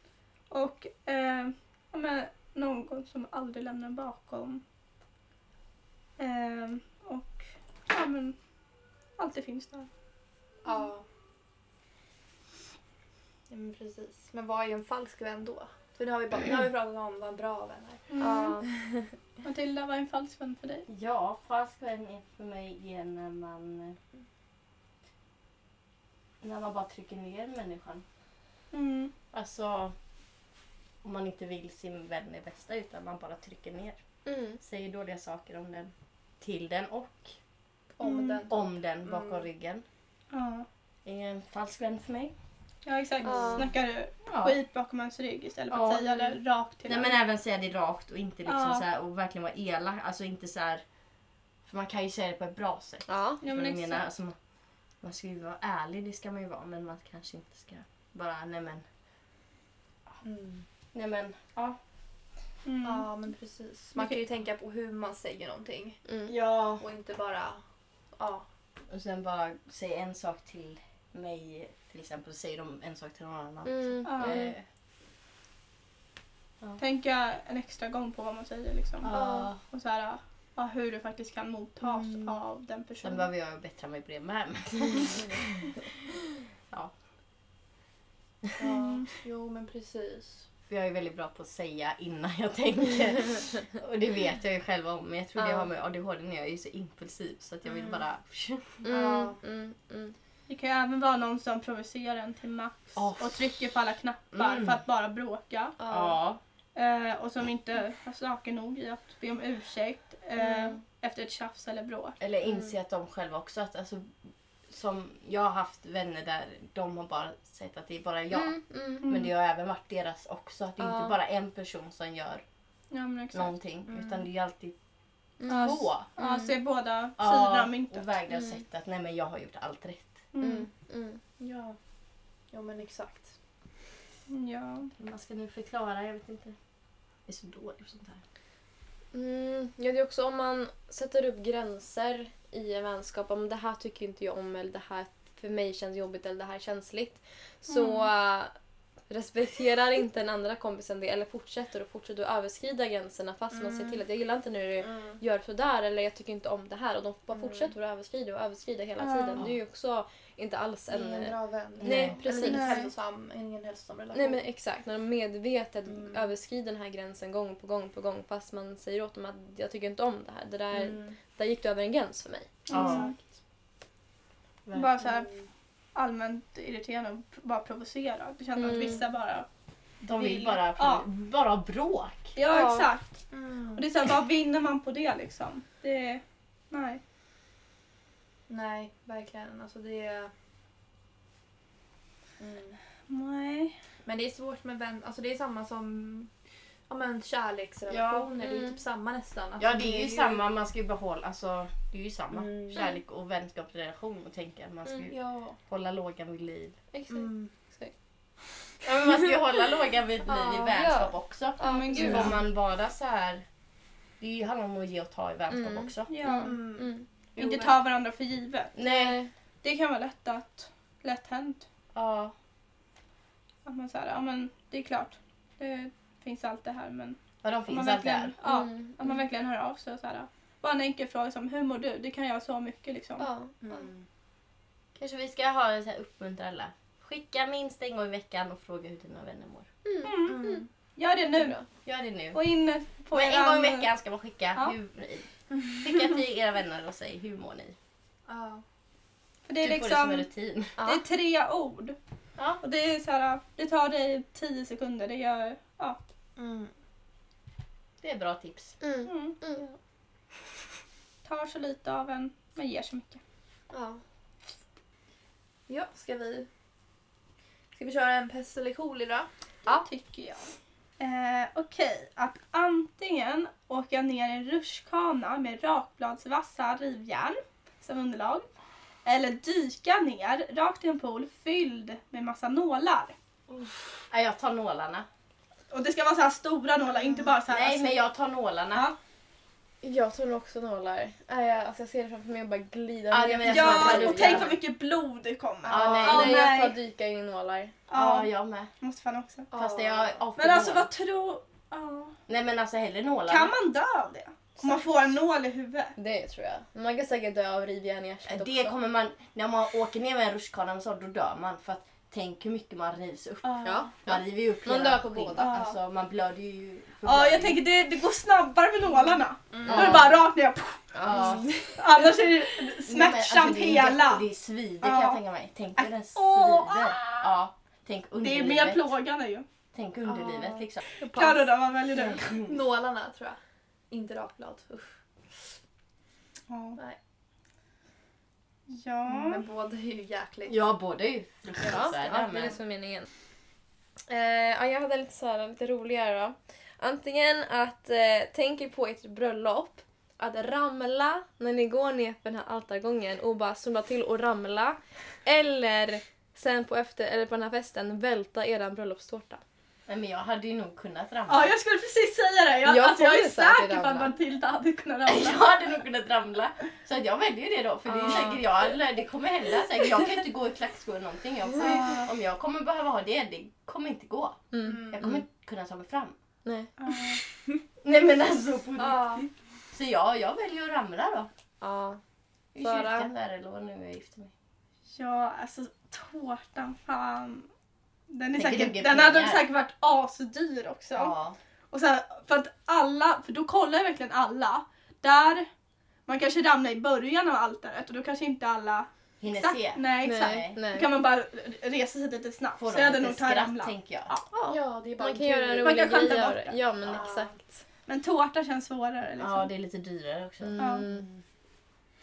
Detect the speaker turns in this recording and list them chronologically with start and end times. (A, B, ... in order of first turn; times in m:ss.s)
0:00.5-0:04.6 A
0:06.2-0:08.4 A
0:09.2-0:09.9 A
0:10.6-0:11.0 B
0:13.5-0:18.2 B
0:18.1-0:18.6 A
0:18.2-0:19.0 C
0:19.4-0:20.9 A
0:20.9-0:24.0 D
0:26.4-0:28.0 D
0:28.7-0:29.1 A
0:29.3-0:30.0 D
0:31.0-0:34.0 D
0:34.3-0:34.6 C
0:34.6-0:37.4 D
0:38.0-0:39.5 B
0:38.0-0:38.4 A
0:38.4-0:39.8 D
0:40.3-0:40.7 A
0:41.0-0:42.3 D
0:42.8-0:47.2 A
0:43.2-0:43.7 C
0:43.3-0:43.6 B
0:44.3-0:44.6 D
0:45.7-0:46.0 D
0:46.9-0:50.8 D
0:48.5-0:48.8 A
0:51.6-0:54.4 D
0:53.1-0:53.4 C
0:53.4-0:54.1 A
0:55.0-0:58.8 D
1:00.2-1:00.6 B
1:00.9-1:01.8 D
1:02.6-1:03.1 A
1:02.8-1:06.0 B
1:06.1-1:06.3 C
1:06.3-1:06.8 D
1:06.8-1:07.6 B
1:08.2-1:08.4 B
1:08.9-1:14.6 D
1:13.6-1:14.5 C
1:14.0-1:14.4 A
1:16.8-1:23.3 A
1:19.0-1:19.6 D
1:19.1-1:19.5 C
1:21.8-1:22.4 B
1:23.0-1:25.9 D
1:26.6-1:26.9 D
1:28.6-1:30.5 B
1:28.8-1:29.0 A
1:30.7-1:38.8 D
1:35.4-1:35.7 C
1:37.6-1:38.0 B
1:38.8-1:39.4 B
1:38.8-1:40.2 C
1:40.5-1:45.8 A
1:43.0-1:43.5 D
1:44.3-1:44.8 D
1:45.8-1:46.2 C
1:45.9-1:46.4 D
1:46.8-1:52.2 A
1:50.4-1:50.7 C
1:52.2-1:54.2 D
1:54.7-2:02.4 D
1:58.3-1:59.1 C
1:59.0-1:59.3 A
2:00.8-2:01.2 C
2:02.9-2:03.5 A
2:03.3-2:04.8 D
2:03.9-2:04.3 B
2:05.4-2:06.6 C
2:05.4-2:06.1 D
2:05.5-2:08.1 A
2:07.2-2:10.2 D
2:08.3-2:08.6 C
2:10.3-2:10.7 A
2:10.4-2:11.2 C
2:11.4-2:11.8 B
2:12.5-2:13.3 B
2:14.3-2:14.9 A
2:15.0-2:16.6 D
2:17.3-2:18.2 D
2:19.1-2:28.5 C
2:27.7-2:28.1 A
2:29.1-2:42.9 C
2:33.5-2:34.0 B
2:34.8-2:35.2 B
2:37.3-2:37.7 B
2:39.0-2:39.4 A
2:40.9-2:44.4 B
2:41.8-2:42.2 D
2:42.3-2:42.9 A
2:44.1-2:52.6 C
2:45.9-2:46.3 B
2:50.7-2:51.2 B
2:52.7-2:53.2 A
2:52.7-2:53.1 D
2:52.7-2:53.2 B
2:54.7-2:54.9 D
2:54.7-2:55.3 A
2:55.0-2:55.5 B
2:56.0-2:59.5 A
2:58.6-2:59.0 C
3:00.0-3:02.3 D
3:00.1-3:01.0 A
3:02.4-3:03.2 A
3:02.5-3:02.9 C
3:03.3-3:03.9 B
3:03.8-3:07.0 A
3:08.5-3:10.3 B
3:12.4-3:12.8 B
3:13.1-3:13.8 A
3:14.0-3:16.3 B
3:16.9-3:20.4 B
3:17.9-3:18.3 D
3:18.4-3:18.8 C
3:19.6-3:26.8 D
3:22.3-3:22.8 B
3:25.1-3:25.6 B
3:26.9-3:27.9 C
3:27.1-3:27.5 B
3:28.8-3:33.4 D
3:30.3-3:32.3 C
3:31.6-3:32.4 A
3:34.2-3:36.1 D
3:35.5-3:37.1 C
3:36.1-3:36.6 A
3:36.4-3:37.8 B
3:37.4-3:38.8 A
3:38.8-3:39.2 D
3:38.8-3:39.3 C
3:39.6-3:41.7 A
3:42.0-3:42.3 D
3:43.6-3:53.3 A
3:47.4-3:48.3 D
3:48.4-3:49.1 C
3:53.2-3:53.8 C
3:53.6-3:54.1 B
3:55.0-3:59.7 D
3:59.8-4:00.6 C
4:00.0-4:01.7 A
4:00.2-4:00.7 B
4:01.4-4:01.6 C
4:01.8-4:02.4 D
4:02.3-4:03.9 A
4:03.1-4:07.8 D
4:08.3-4:08.6 B
4:09.5-4:12.0 A
4:09.6-4:10.8 D
4:10.8-4:11.0 C
4:12.6-4:16.0 A
4:16.4-4:16.7 B
4:18.0-4:18.8 D
4:18.8-4:19.6 C
4:19.1-4:19.4 A
4:21.2-4:23.2 A
4:23.7-4:24.0 C
4:25.7-4:26.5 B
4:27.7-4:29.3 B
4:29.7-4:38.5 A
4:39.0-4:43.2 A
4:44.1-4:45.1 D
4:45.7-4:48.0 A
4:47.5-4:48.9 D
4:49.8-4:54.5 C
4:53.1-4:54.6 D
4:53.4-4:56.8 A
4:55.6-4:56.3 B
4:55.7-4:56.5 D
4:56.0-4:57.7 C
4:57.9-4:59.5 A
4:57.9-4:58.7 D
4:59.5-5:00.2 B
4:59.5-5:00.9 D
5:00.4-5:02.2 A
5:02.3-5:03.5 D
5:03.3-5:06.0 A
5:06.0-5:08.8 C
5:08.3-5:17.6 D
5:13.4-5:13.9 A
5:13.6-5:15.6 C
5:15.4-5:15.7 A
5:17.0-5:21.1 A
5:19.5-5:20.1 B
5:19.6-5:20.2 D
5:21.0-5:21.5 D
5:21.1-5:21.8 C
5:21.8-5:24.3 A
5:22.8-5:28.9 D
5:24.8-5:25.2 A
5:25.8-5:27.3 A
5:28.2-5:29.4 A
5:29.7-5:30.8 D
5:30.0-5:31.5 B
5:31.0-5:32.2 A
5:31.9-5:32.6 D
5:32.3-5:33.4 B
5:33.9-5:35.5 B
5:36.5-5:36.8 A
5:38.7-5:39.4 A
5:39.1-5:40.6 B
5:40.5-5:42.6 D
5:41.6-5:43.1 C
5:44.1-5:59.4 C
5:59.9-6:01.5 D
6:01.3-6:05.5 A
6:02.6-6:04.1 C
6:05.1-6:16.2 D
6:07.8-6:08.4 C
6:11.6-6:12.1 A
6:14.5-6:15.2 C
6:14.6-6:15.1 B
6:16.4-6:16.7 C
6:16.8-6:17.2 A
6:17.8-6:21.3 D
6:18.8-6:19.2 B
6:21.6-6:22.0 C
6:22.5-6:24.3 D
6:22.6-6:23.1 C
6:24.9-6:27.5 A
6:28.1-6:31.2 A
6:28.3-6:29.4 D
6:31.0-6:31.4 D
6:31.7-6:35.5 A
6:36.1-6:43.7 A
6:39.2-6:40.6 D
6:40.0-6:40.9 C
6:42.6-6:44.1 D
6:44.1-6:47.6 C
6:44.5-6:46.1 B
6:45.6-6:46.6 A
6:46.9-6:47.4 B
6:47.9-6:49.5 A
6:49.2-6:51.2 D
6:50.4-6:51.1 C
6:50.6-6:50.8 A